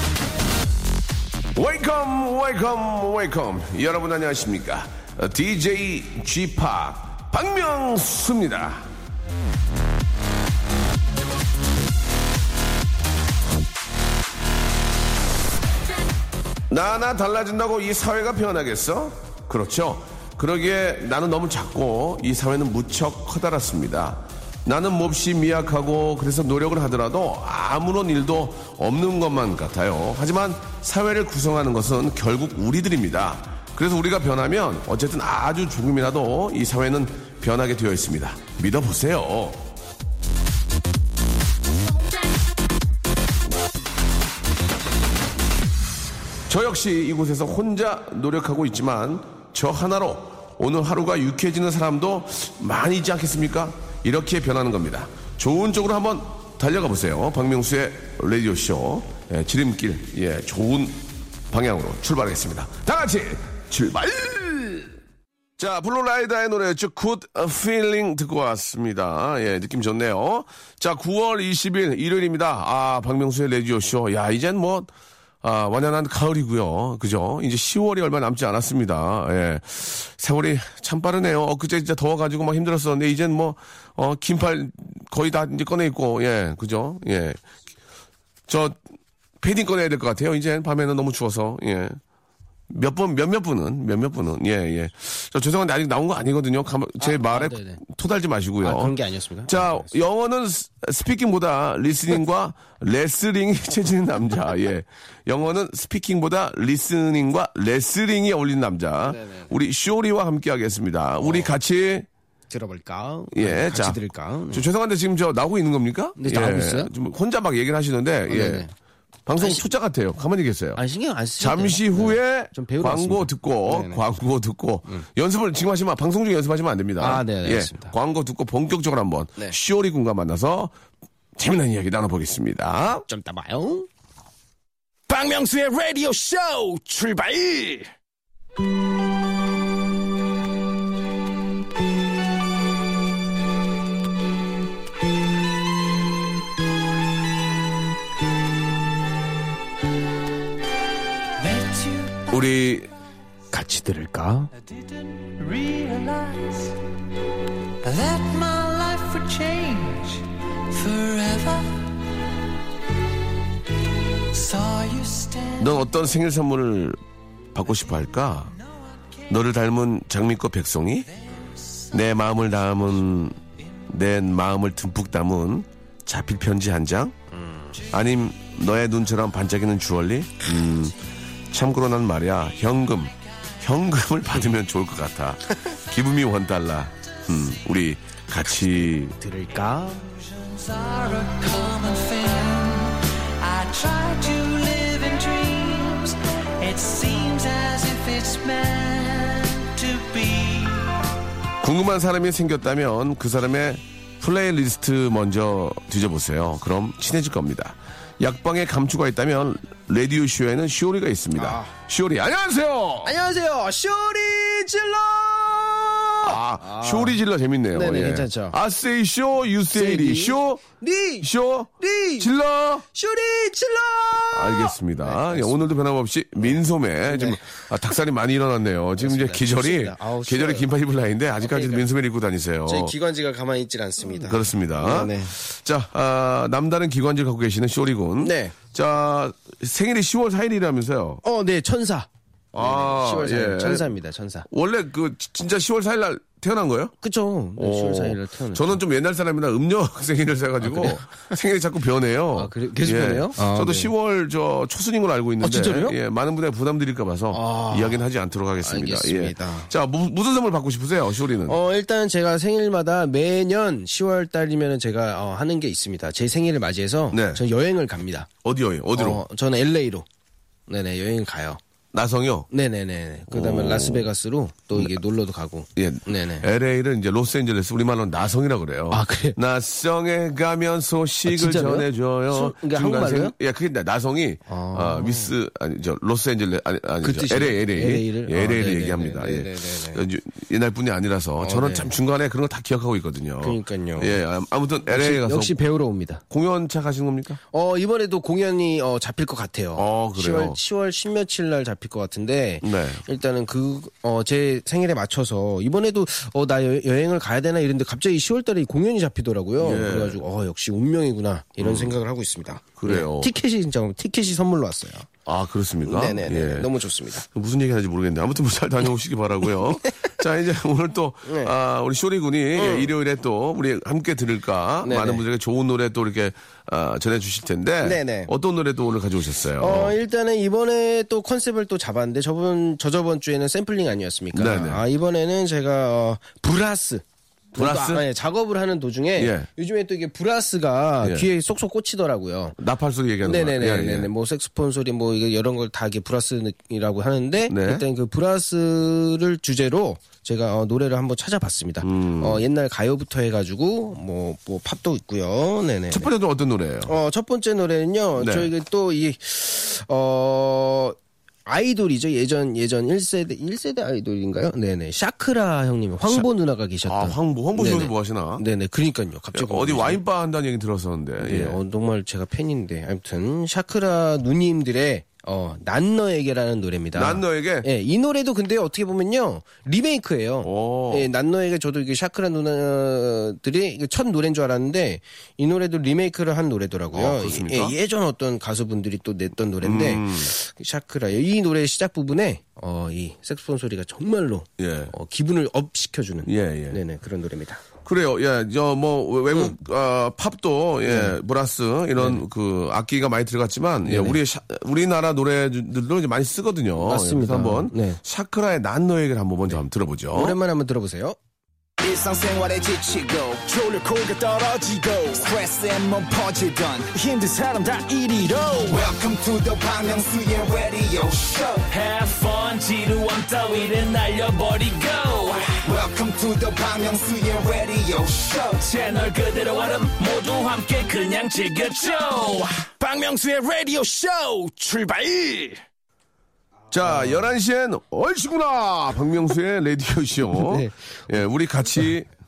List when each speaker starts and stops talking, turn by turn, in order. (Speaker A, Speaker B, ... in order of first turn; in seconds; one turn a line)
Speaker A: 1.5-8.9
Speaker A: 16.7-39.7
Speaker A: 46.5-65.0
Speaker A: 65.6-74.9
Speaker A: 75.4-87.4
Speaker A: 88.5-88.8
Speaker A: 89.4-92.0
Speaker A: 92.7-99.0
Speaker B: 97.0-97.8
Speaker B: 98.6-99.9
Speaker A: 99.5-112.1
Speaker B: 109.1-109.5
Speaker B: 111.2-111.5
Speaker B: 112.5-114.7
Speaker A: 113.3-114.0
Speaker A: 114.5-118.7
Speaker B: 116.2-116.9
Speaker B: 118.3-118.7
Speaker A: 119.3-120.8
Speaker B: 119.4-119.7
Speaker B: 120.8-124.0
Speaker A: 121.4-130.7
Speaker B: 127.0-127.9
Speaker A: 131.4-133.1
Speaker B: 133.1-133.9
Speaker C: 135.1-137.9
Speaker D: 151.4-152.5
Speaker A: 152.3-152.9
Speaker B: 153.5-154.5
Speaker D: 154.6-156.8
Speaker D: 157.8-161.9
Speaker D: 164.3-165.8
Speaker A: 165.6-167.0
Speaker A: 167.5-168.5
Speaker D: 168.7-169.1
Speaker A: 169.3-171.1
Speaker D: 171.1-171.9
Speaker A: 171.9-177.2
Speaker B: 177.3-177.8
Speaker A: 177.9-180.9
Speaker A: 181.5-189.2
Speaker B: 189.2-190.0
Speaker D: 189.7-201.1
Speaker A: 201.6-213.2
Speaker B: 211.3-211.7
Speaker B: 213.0-217.2
Speaker A: 216.2-220.6
Speaker B: 217.7-218.6
Speaker B: 219.7-222.3
Speaker A: 221.2-222.9
Speaker B: 222.9-225.7
Speaker A: 224.3-232.9
Speaker B: 226.4-227.7
Speaker B: 229.0-230.7
Speaker B: 231.4-231.9
Speaker B: 232.7-235.4
Speaker A: 234.2-241.2
Speaker B: 238.2-238.6
Speaker B: 241.2-244.5
Speaker A: 242.5-243.9
Speaker A: 244.5-246.9
Speaker B: 247.0-248.8
Speaker A: 247.6-261.6
Speaker B: 250.6-251.3
Speaker B: 252.3-253.9
Speaker B: 255.4-256.0
Speaker B: 257.3-258.0
Speaker B: 258.6-259.7
Speaker B: 261.5-268.3
Speaker A: 267.1-267.4
Speaker A: 268.4-269.2
Speaker B: 268.9-270.1
Speaker B: 270.7-271.6
Speaker A: 271.9-272.5
Speaker B: 272.5-276.5
Speaker A: 273.3-274.1
Speaker A: 275.8-295.6
Speaker B: 278.9-279.4
Speaker B: 281.3-283.3
Speaker B: 284.5-285.3
Speaker B: 287.0-290.0
Speaker B: 291.4-291.9
Speaker B: 293.4-294.2
Speaker B: 294.9-296.2
Speaker A: 296.3-297.4
Speaker B: 297.5-315.1
Speaker A: 299.8-300.6
Speaker A: 302.6-303.0
Speaker A: 309.6-310.2
Speaker A: 311.6-312.0
Speaker A: 312.8-313.3
Speaker A: 315.3-316.7
Speaker B: 315.9-317.3
Speaker A: 317.3-330.0
Speaker B: 321.2-321.5
Speaker B: 322.6-322.9
Speaker B: 324.8-325.2
Speaker B: 327.8-328.3
Speaker B: 329.6-337.0
Speaker A: 334.3-334.8
Speaker B: 337.5-342.6
Speaker A: 337.6-338.1
Speaker A: 339.2-339.5
Speaker A: 341.0-341.3
Speaker A: 342.6-344.1
Speaker B: 343.2-356.1
Speaker A: 347.5-347.8
Speaker A: 351.8-352.4
Speaker A: 355.9-356.9
Speaker B: 356.9-370.0
Speaker A: 358.2-358.5
Speaker A: 366.9-368.4
Speaker A: 369.3-371.6
Speaker B: 371.2-397.6
Speaker A: 377.0-377.7
Speaker A: 380.4-381.1
Speaker A: 386.9-387.8
Speaker A: 389.6-390.3
Speaker A: 394.6-394.9
Speaker A: 396.2-396.8
Speaker A: 397.8-410.4
Speaker B: 399.3-399.6
Speaker B: 400.9-401.1
Speaker B: 402.0-402.2
Speaker B: 403.8-404.2
Speaker B: 406.8-408.0
Speaker B: 410.1-411.2
Speaker C: 411.8-421.7
Speaker E: 421.7-425.6
Speaker C: 425.6-429.0
Speaker E: 428.7-432.6
Speaker C: 432.7-435.6
Speaker A: 436.7-442.1
Speaker B: 436.8-437.3
Speaker B: 440.3-441.2